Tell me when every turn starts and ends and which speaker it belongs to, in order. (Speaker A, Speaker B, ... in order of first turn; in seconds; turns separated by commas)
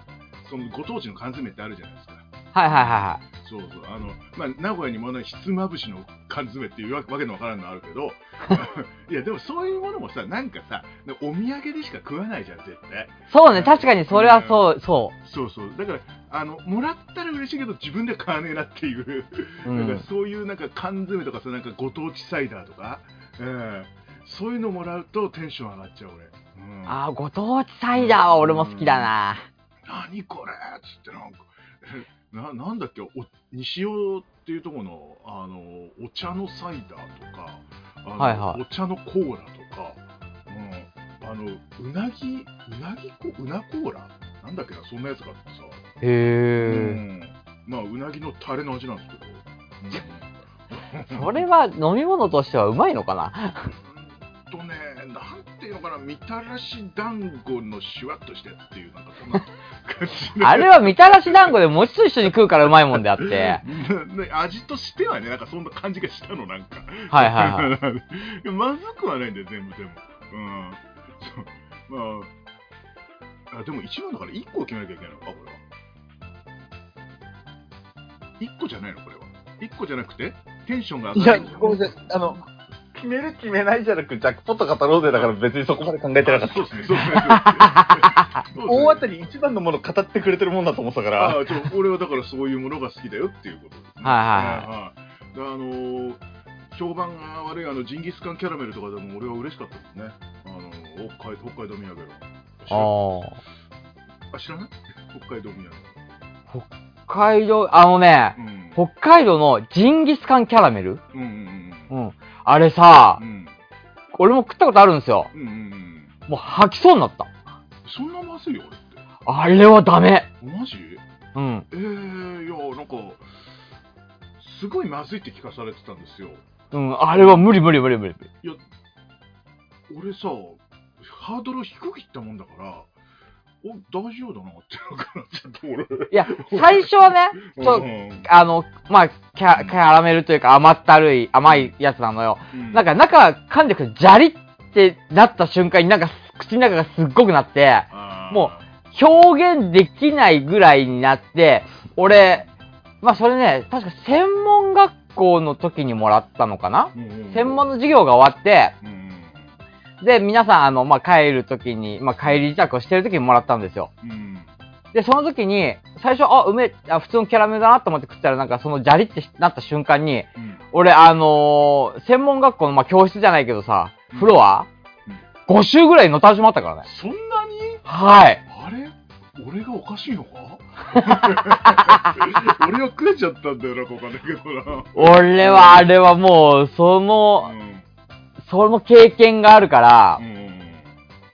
Speaker A: 0.4-14.6, Speaker B: 2.5-3.2, Speaker B: 13.3-15.1, Speaker A: 15.2-27.0, Speaker B: 19.7-20.0, Speaker B: 26.9-29.4, Speaker A: 27.9-29.1, Speaker A: 29.9-45.8, Speaker B: 38.2-38.6, Speaker B: 46.0-47.0, Speaker A: 46.6-51.4, Speaker B: 51.1-53.7, Speaker A: 53.6-61.5, Speaker B: 60.4-63.6, Speaker A: 62.9-72.3, Speaker B: 67.1-67.7, Speaker A: 73.5-75.6, Speaker A: 78.4-81.9, Speaker C: 81.1-86.9, Speaker A: 86.2-89.0, Speaker B: 87.1-88.1, Speaker C: 88.6-91.5, Speaker A: 91.2-102.9, Speaker B: 94.0-94.7, Speaker B: 102.7-103.3, Speaker A: 104.3-105.9, Speaker B: 106.5-111.0, Speaker A: 108.3-108.8, Speaker A: 111.1-111.9, Speaker B: 111.9-113.2, Speaker A: 113.2-113.5, Speaker B: 114.1-115.3, Speaker A: 115.3-116.1, Speaker B: 116.3-117.3, Speaker A: 117.8-119.0, Speaker B: 119.2-120.3, Speaker A: 120.4-121.0, Speaker B: 121.3-121.7, Speaker A: 121.7-123.2, Speaker A: 124.4-126.4, Speaker B: 126.7-128.3, Speaker A: 127.1-127.6, Speaker A: 129.9-132.9, Speaker A: 133.6-138.3, Speaker B: 136.1-152.4, Speaker A: 139.5-139.8, Speaker A: 141.4-141.7, Speaker A: 142.5-142.8, Speaker A: 147.9-148.7, Speaker B: 153.0-158.7, Speaker A: 156.9-157.7, Speaker A: 158.8-159.5, Speaker B: 160.0-163.9, Speaker A: 164.0-164.5, Speaker B: 164.9-174.7, Speaker A: 170.3-170.6, Speaker B: 175.5-176.8, Speaker A: 176.8-177.9, Speaker B: 177.9-178.4, Speaker A: 178.4-185.9, Speaker B: 180.9-181.9, Speaker B: 184.9-187.5, Speaker A: 187.4-187.8, Speaker B: 188.4-190.2, Speaker A: 190.2-190.9